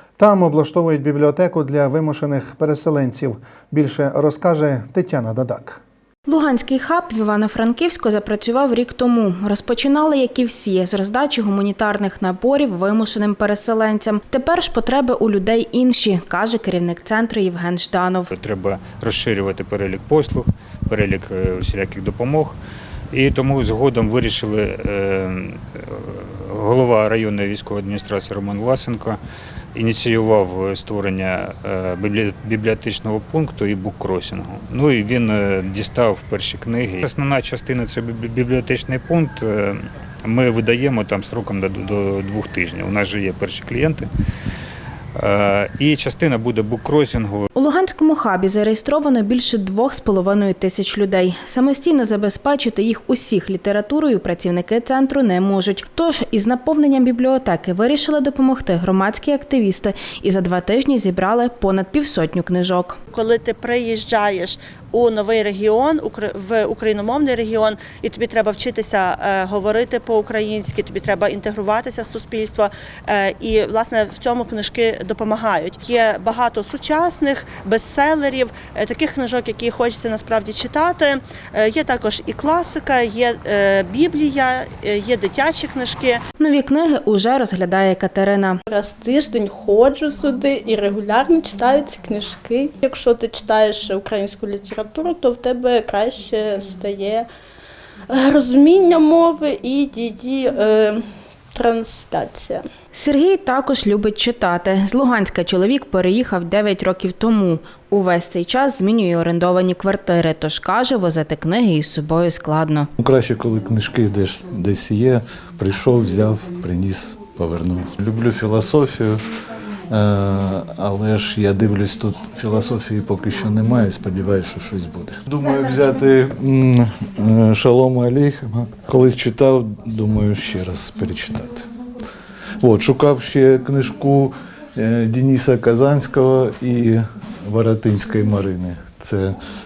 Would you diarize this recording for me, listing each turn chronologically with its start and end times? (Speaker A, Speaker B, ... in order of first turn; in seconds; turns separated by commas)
Speaker A: 0.2-5.8, Speaker B: 6.3-18.3, Speaker C: 18.3-22.6, Speaker C: 23.1-29.2, Speaker C: 29.8-44.1, Speaker C: 45.2-47.5, Speaker B: 47.5-63.0, Speaker D: 63.1-86.2, Speaker B: 86.4-88.6, Speaker E: 88.7-97.3, Speaker E: 98.1-102.7, Speaker B: 102.9-112.9, Speaker F: 113.0-119.2, Speaker F: 119.9-131.7, Speaker F: 132.6-139.4